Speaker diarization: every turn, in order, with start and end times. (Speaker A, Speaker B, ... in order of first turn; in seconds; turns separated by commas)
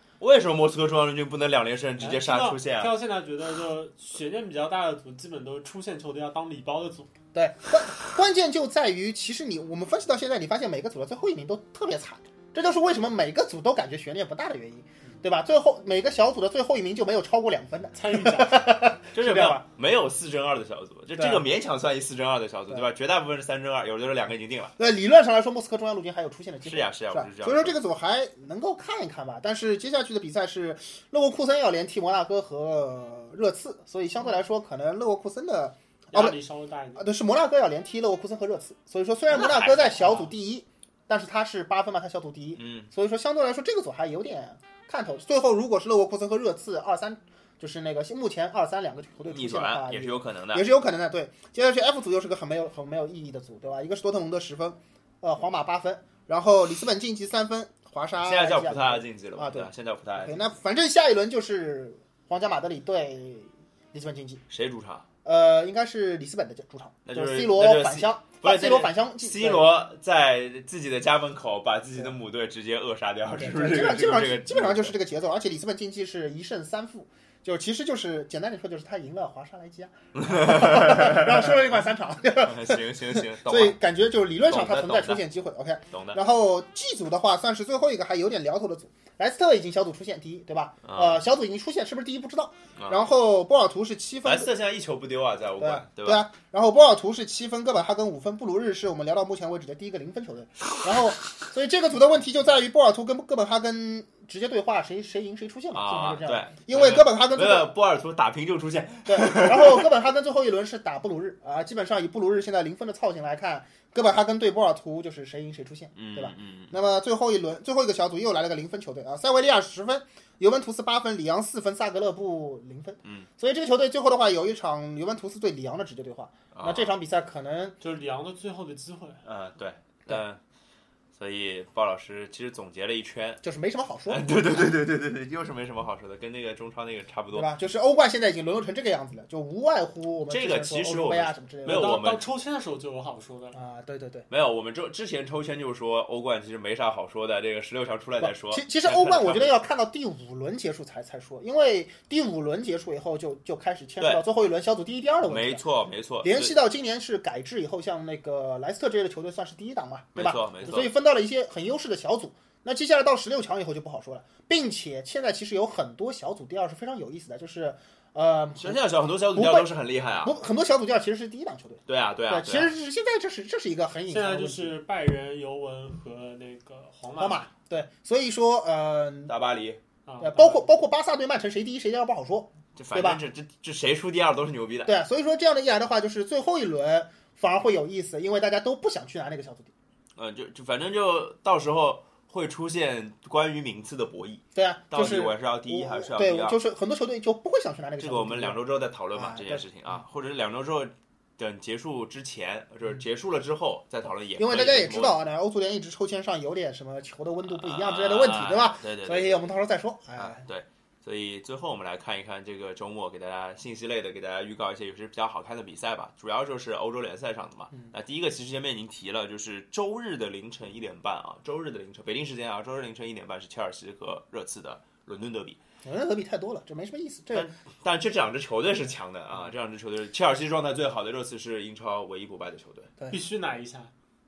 Speaker A: 0.2-2.9, Speaker B: 2.0-7.1, Speaker C: 7.3-19.6, Speaker B: 17.9-18.6, Speaker A: 19.1-24.7, Speaker C: 21.1-21.5, Speaker C: 24.8-36.4, Speaker A: 26.6-27.8, Speaker B: 36.1-37.1, Speaker C: 37.0-64.4, Speaker A: 39.3-40.3, Speaker A: 42.6-42.9, Speaker A: 49.3-50.7, Speaker A: 58.2-60.4, Speaker A: 64.5-65.0, Speaker C: 65.2-69.7, Speaker A: 67.0-75.0, Speaker C: 73.3-94.5, Speaker A: 80.1-81.5, Speaker A: 82.4-83.8, Speaker A: 84.4-85.2, Speaker A: 85.9-86.2, Speaker A: 90.8-91.2, Speaker A: 92.8-93.0, Speaker A: 94.2-96.3, Speaker C: 95.6-107.7, Speaker A: 105.7-109.9, Speaker C: 109.0-127.8, Speaker A: 115.9-116.8, Speaker A: 126.5-127.0, Speaker B: 127.8-129.2, Speaker A: 129.2-130.4, Speaker A: 131.1-133.4, Speaker C: 133.4-134.8, Speaker A: 134.1-137.5, Speaker C: 137.3-142.0, Speaker A: 140.3-142.3, Speaker B: 141.7-143.6, Speaker C: 143.5-144.3, Speaker A: 144.3-149.6, Speaker C: 148.2-155.6, Speaker A: 154.0-154.2, Speaker A: 155.2-156.5, Speaker C: 156.2-168.8, Speaker A: 160.1-160.9, Speaker A: 168.6-170.4, Speaker C: 169.3-174.8, Speaker A: 171.9-172.7, Speaker B: 174.1-177.5, Speaker C: 177.2-179.3, Speaker A: 179.3-179.8, Speaker B: 180.1-180.7, Speaker C: 180.2-183.2, Speaker A: 182.8-184.9, Speaker C: 184.8-189.7, Speaker A: 190.2-196.6, Speaker C: 194.5-198.6, Speaker A: 198.0-205.2, Speaker C: 199.1-199.6, Speaker C: 204.4-210.4, Speaker A: 207.5-209.5, Speaker A: 210.2-225.6, Speaker C: 225.8-227.5, Speaker A: 227.3-232.9, Speaker B: 233.1-233.9